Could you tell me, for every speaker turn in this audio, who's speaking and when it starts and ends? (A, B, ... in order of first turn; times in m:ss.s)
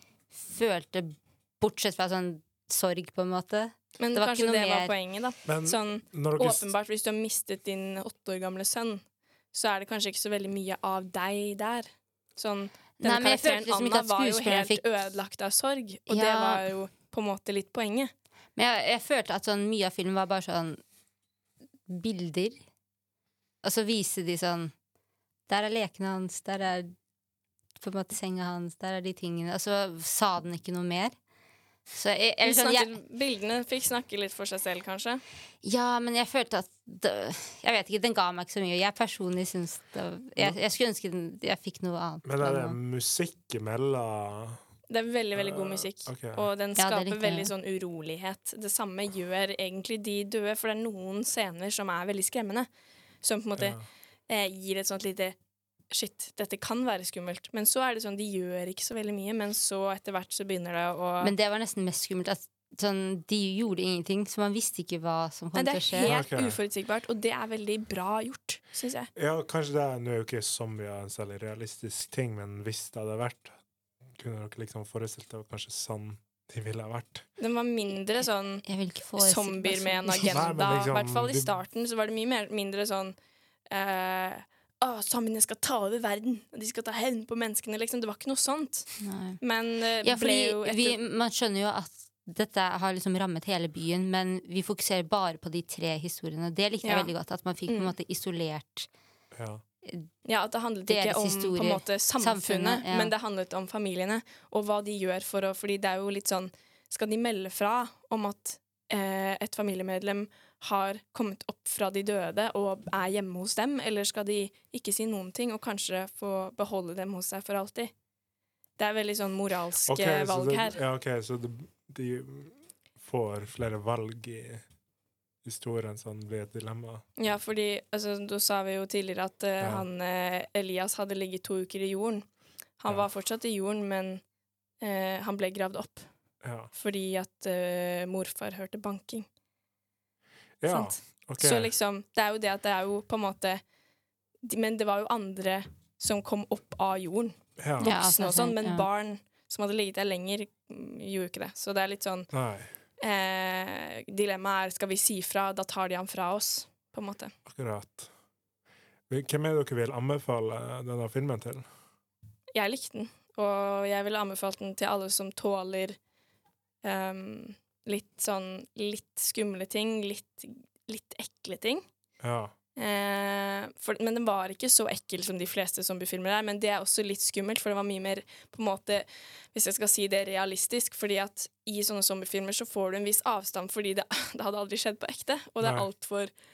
0:00.3-0:04.9 A
0:04.0-0:18.1 B
0:05.4-0:06.6 C
0:13.0-0:14.8 A
0:16.1-0:16.6 A
0:18.6-0:20.8 A
0:21.9-0:22.6 A
0:23.6-0:24.7 A
0:25.5-0:26.9 A
0:27.8-0:31.1 A
0:31.9-0:32.9 A
0:32.4-0:35.2 B
0:35.6-0:42.8 A
0:42.2-0:44.6 C
0:44.9-0:52.7 B
0:45.3-0:46.5 C
0:46.8-0:47.5 A
0:53.2-0:55.4 B
0:53.6-0:53.8 C
0:55.9-1:01.3 B
1:01.2-1:06.1 A
1:05.5-1:09.1 B
1:06.0-1:06.6 C
1:09.2-1:13.5 C
1:14.1-1:17.2 C
1:17.4-1:18.6 B
1:18.6-1:20.5 A
1:19.2-1:23.2 B
1:20.3-1:21.5 C
1:23.7-1:31.0 B
1:29.0-1:29.4 A
1:30.0-1:38.9 A
1:36.8-1:37.1 B
1:37.7-1:37.9 B
1:39.3-1:39.6 C
1:40.2-1:57.9 B
1:40.9-1:43.1 A
1:58.8-2:00.8 B
1:59.9-2:04.6 C
2:05.4-2:07.0 C
2:07.2-2:12.3 B
2:12.8-2:14.2 B
2:14.8-2:16.1 B
2:16.4-2:16.7 C
2:16.7-2:19.3 B
2:20.6-2:21.7 C
2:20.7-2:23.6 B
2:24.4-2:32.3 B
2:27.6-2:27.9 C
2:27.8-2:28.9 A
2:32.3-2:32.7 C
2:33.0-2:37.3 B
2:37.4-2:38.1 C
2:39.1-2:41.6 C
2:42.5-2:46.0 B
2:46.8-2:51.8 B
2:52.2-2:52.5 C
2:52.8-3:06.3 B
3:05.6-3:05.9 C